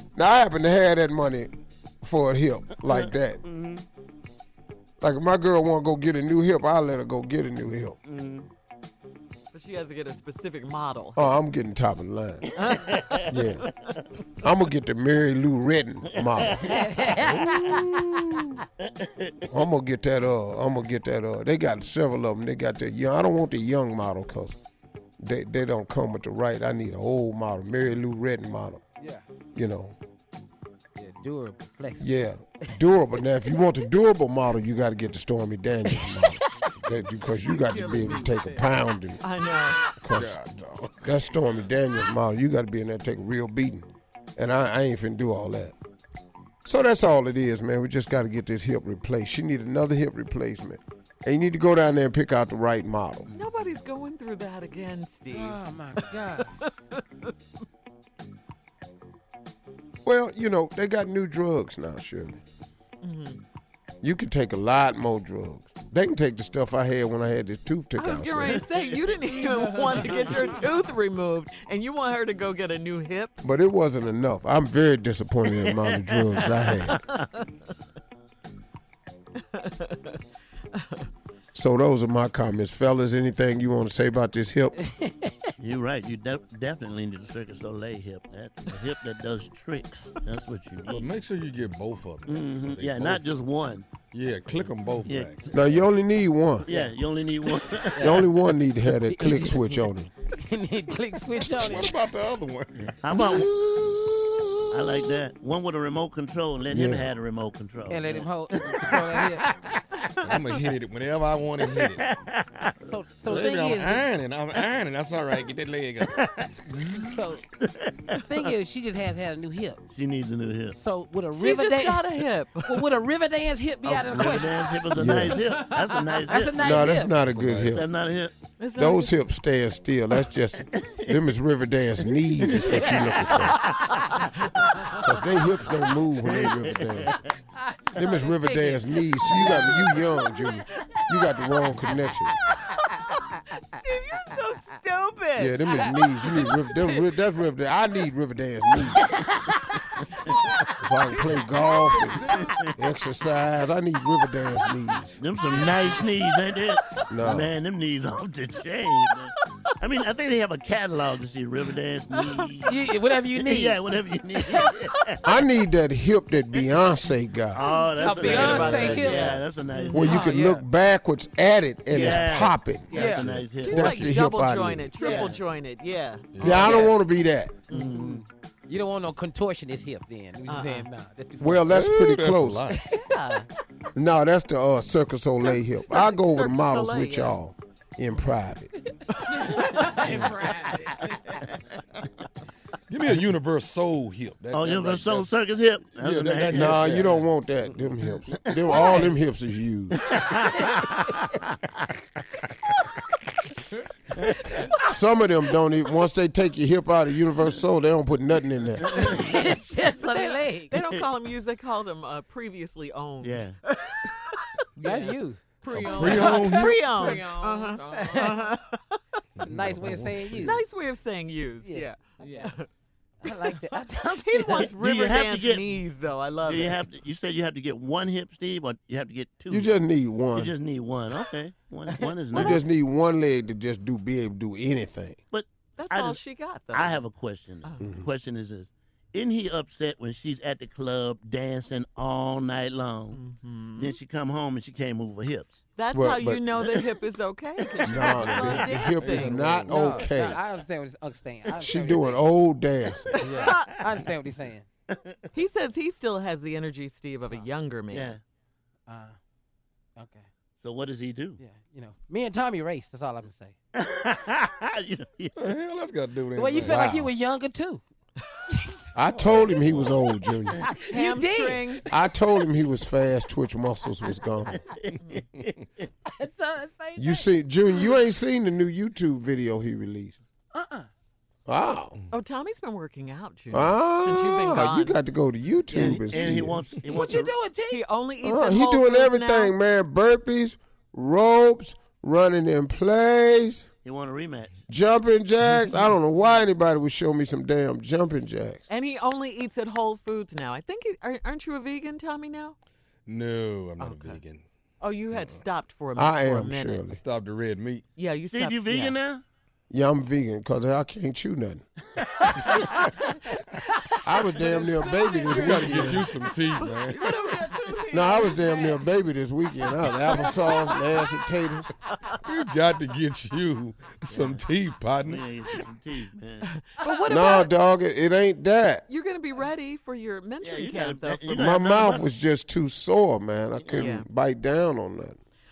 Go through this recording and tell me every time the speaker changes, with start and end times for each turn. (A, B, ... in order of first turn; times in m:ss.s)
0:00.1-0:03.4 A
0:02.9-0:03.8 B
0:05.0-0:08.0 A
0:08.0-0:08.5 B
0:09.5-0:11.3 C
0:11.2-0:12.6 A
0:12.6-0:13.7 C
0:13.2-0:13.7 A
0:14.4-0:16.9 A
0:16.2-0:19.3 B
0:16.7-0:18.0 D
0:17.2-0:17.6 E
0:19.5-0:24.6 A
0:25.2-0:28.8 A
0:29.0-0:29.3 D
0:29.5-0:29.9 A
0:31.0-0:32.1 D
0:32.0-0:39.2 A
0:36.0-0:36.3 D
0:37.5-0:38.6 D
0:39.2-0:39.8 C
0:40.0-0:40.4 A
0:40.1-0:41.1 E
0:41.0-0:45.8 A
0:46.6-0:53.3 A
0:53.3-0:57.3 C
0:55.3-0:56.6 D
1:00.0-1:02.4 A
1:03.0-1:03.4 C
1:04.0-1:08.7 A
1:08.0-1:13.4 C
1:13.4-1:17.0 A
1:15.7-1:16.9 B
1:16.8-1:17.4 C
1:19.5-1:20.2 C
1:20.7-1:21.0 C
1:21.5-1:24.9 A
1:25.0-1:25.5 D
1:25.6-1:31.2 B
1:30.8-1:33.3 E
1:32.2-1:33.9 B
1:34.1-1:35.8 E
1:35.0-1:35.5 B
1:35.5-1:36.7 A
1:36.6-1:38.2 B
1:37.9-1:38.3 D
1:38.0-1:40.1 A
1:39.1-1:42.0 D
1:41.5-1:43.5 E
1:43.0-1:43.8 B
1:44.7-1:49.3 B
1:46.7-1:47.1 A
1:47.9-1:49.7 D
1:50.2-1:52.0 E
1:51.6-1:52.7 B
1:52.8-1:54.1 D
1:53.2-1:56.2 E
1:56.1-1:57.1 B
1:57.0-1:57.4 D
1:57.6-1:58.4 B
1:58.1-1:59.8 D
1:59.9-2:00.8 B
2:00.8-2:02.0 D
2:01.4-2:02.8 C
2:02.6-2:07.2 D
2:03.8-2:08.3 B
2:04.9-2:05.4 A
2:06.6-2:07.8 A
2:08.6-2:09.1 C
2:08.8-2:13.7 A
2:12.4-2:13.4 B
2:12.5-2:13.0 D
2:13.3-2:15.0 C
2:15.0-2:17.2 A
2:16.2-2:17.2 B
2:17.6-2:20.2 D
2:18.0-2:22.4 A
2:22.7-2:25.9 C
2:25.4-2:29.1 A
2:28.9-2:29.8 D
2:30.8-2:35.2 A
2:35.2-2:45.2 B
2:37.1-2:37.5 A
2:42.6-2:44.0 D
2:44.5-2:45.1 C
2:45.2-2:47.7 A
2:47.5-2:50.1 B
2:47.6-2:50.3 C
2:47.9-2:49.4 D
2:48.4-2:48.9 A
2:49.9-2:55.0 A
2:49.9-2:50.6 D
2:51.9-2:52.3 C
2:51.9-2:53.8 B
2:52.9-2:56.9 C
2:52.9-2:53.3 D
2:53.2-2:54.2 E
2:55.0-2:55.3 D
2:55.0-2:55.4 B
2:56.3-2:56.8 E
2:56.4-2:57.6 A
2:56.6-2:56.9 D
2:57.7-2:58.2 C
2:57.7-2:58.2 B
2:58.7-3:01.8 D
3:00.5-3:00.9 C
3:01.4-3:02.7 A
3:01.7-3:02.8 E
3:02.7-3:03.4 D
3:02.9-3:03.5 C
3:03.9-3:08.7 A
3:05.9-3:07.4 C
3:09.1-3:10.3 C
3:09.3-3:11.0 D
3:12.9-3:15.3 E
3:14.5-3:16.9 B
3:15.9-3:17.3 E
3:16.5-3:20.1 A
3:18.7-3:19.1 B
3:18.7-3:19.0 C
3:20.1-3:21.1 B
3:24.7-3:29.2 A
3:29.0-3:30.7 D
3:30.0-3:39.2 C
3:33.2-3:33.6 B
3:34.8-3:38.3 D
3:35.7-3:36.9 E
3:39.4-3:40.6 E
3:39.4-3:40.6 D
3:40.4-3:42.7 C
3:41.6-3:42.5 D
3:43.2-3:44.7 D
3:43.2-3:46.8 C
3:44.5-3:45.8 B
3:46.4-3:49.8 B
3:49.5-3:50.5 A
3:50.3-3:52.6 B
3:51.9-3:52.6 D
3:52.3-3:55.2 A
3:55.3-3:56.2 B
3:55.8-3:57.0 C
3:56.7-4:03.2 B
3:57.8-3:58.1 A
4:03.1-4:04.0 C
4:03.8-4:05.6 B
4:05.8-4:09.4 C
4:05.9-4:06.4 A
4:07.8-4:10.4 A
4:08.0-4:08.9 B
4:08.1-4:09.8 E
4:09.6-4:12.2 D
4:11.6-4:13.2 A
4:13.2-4:14.6 D
4:13.2-4:13.8 C
4:15.3-4:18.1 C
4:17.9-4:18.2 B
4:18.9-4:19.2 D
4:20.0-4:20.3 D
4:20.6-4:21.4 B
4:21.4-4:23.5 D
4:23.7-4:25.4 B
4:25.4-4:26.8 E
4:26.3-4:27.8 D
4:26.6-4:27.1 A
4:28.9-4:30.6 A
4:29.1-4:30.0 E
4:30.6-4:31.9 D
4:30.9-4:31.8 C
4:31.9-4:34.6 A
4:34.4-4:35.5 B
4:36.0-4:37.3 D
4:37.0-4:40.2 A
4:40.5-4:40.9 D
4:41.5-4:42.0 A
4:42.1-4:45.0 C
4:43.5-4:46.6 A
4:45.7-4:47.4 B
4:46.8-4:47.8 D
4:47.7-4:49.5 C
4:48.2-4:53.6 A
4:53.8-4:54.6 B
4:54.7-4:58.6 A
4:58.7-5:02.5 C
5:03.0-5:04.4 E
5:03.8-5:04.2 C
5:04.8-5:06.8 C
5:06.0-5:07.0 A
5:06.9-5:07.8 E
5:08.0-5:09.0 C
5:08.3-5:09.2 B
5:09.7-5:11.6 A
5:12.3-5:12.6 C
5:14.0-5:16.1 A
5:14.4-5:15.6 D
5:14.5-5:16.0 C
5:15.3-5:17.2 E
5:16.6-5:18.8 C
5:17.9-5:21.7 A
5:20.0-5:20.9 C
5:22.2-5:25.3 E
5:24.1-5:24.5 B
5:25.0-5:26.5 B
5:26.5-5:27.5 C
5:27.1-5:28.8 A
5:28.9-5:31.5 C
5:30.4-5:32.1 B
5:31.3-5:35.2 A
5:33.6-5:34.0 B
5:33.8-5:34.0 C